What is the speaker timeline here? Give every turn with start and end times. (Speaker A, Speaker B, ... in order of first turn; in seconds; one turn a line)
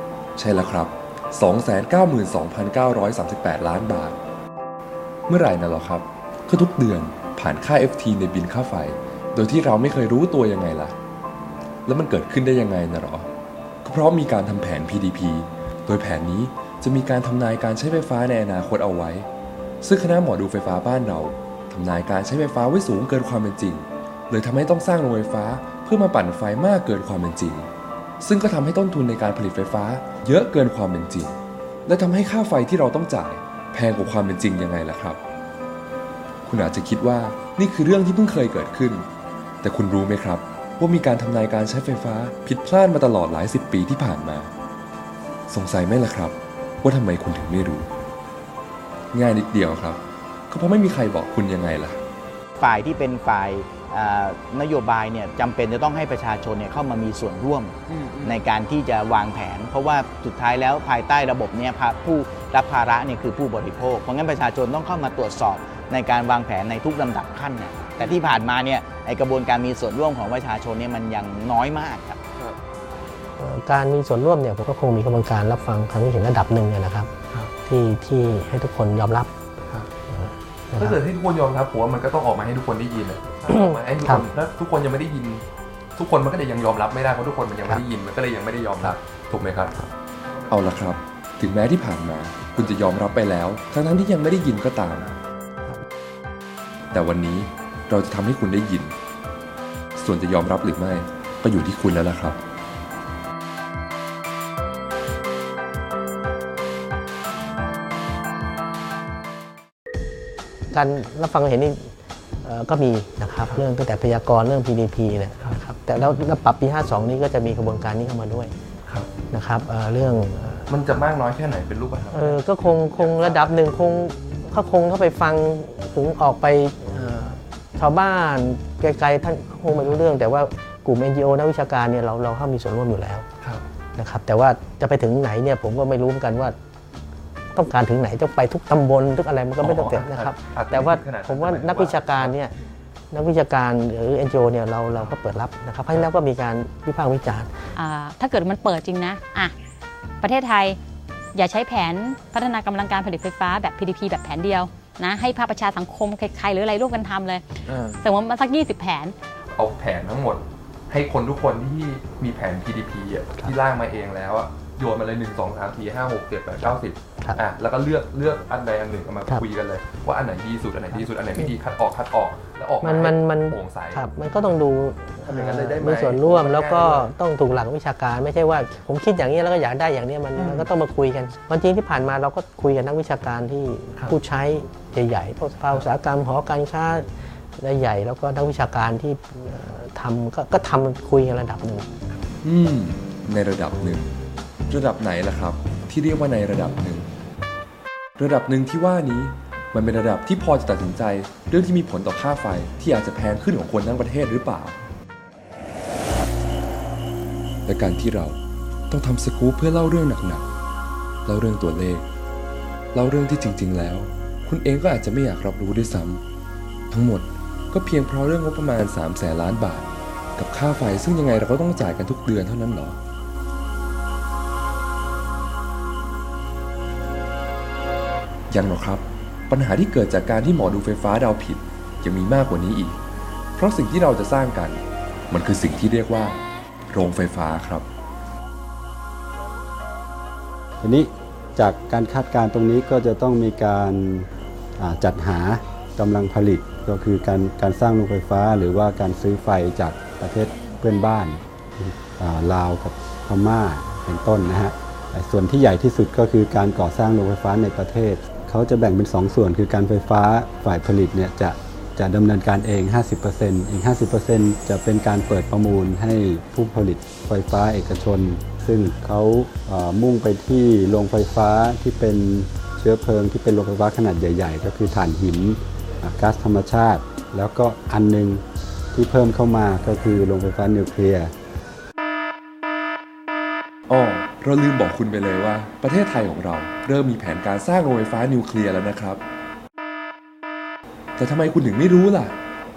Speaker A: 0.4-4.2
Speaker A: 5.3-11.0
Speaker A: 11.9-13.3
Speaker A: 13.8-19.3
Speaker A: 19.8-27.7
Speaker A: 28.2-35.2
Speaker A: 36.5-39.1
Speaker A: 39.6-44.5
Speaker A: 45.5-47.9
Speaker A: 49.1-52.0
Speaker B: 52.6-57.7
Speaker C: 57.9-58.4
Speaker B: 58.3-72.2
Speaker C: 68.0-68.3
Speaker D: 73.4-77.1
Speaker D: 77.6-79.3
Speaker D: 80.1-81.0
Speaker C: 80.8-85.4
Speaker D: 83.5-84.2
Speaker C: 86.0-89.8
Speaker A: 90.5-95.1
Speaker A: 96.9-99.0
Speaker A: 100.0-102.4
Speaker D: 110.7-111.9
Speaker D: 112.4-118.5
Speaker D: 119.3-120.7
Speaker C: 120.7-123.6
Speaker D: 122.1-133.3
Speaker D: 134.0-136.6
Speaker D: 137.5-142.5
Speaker C: 139.6-142.3
Speaker D: 143.1-147.7
Speaker E: 147.8-149.5
Speaker E: 150.2-150.8
Speaker E: 151.3-159.2
Speaker C: 157.7-158.0
Speaker C: 159.6-174.0
Speaker D: 170.9-171.6
Speaker D: 172.8-191.9
Speaker C: 175.2-177.1
Speaker C: 180.4-180.7
Speaker A: 192.4-194.1
Speaker A: 194.7-197.1
Speaker A: 198.2-204.8
Speaker A: 207.7-208.4
Speaker A: 208.9-210.5
Speaker A: 211.3-212.1
Speaker A: 212.9-216.2
Speaker A: 216.9-223.0
Speaker A: 228.5-233.0
Speaker A: 233.6-237.9
Speaker F: 240.8-281.3
Speaker A: 283.9-289.2
Speaker A: 291.2-292.4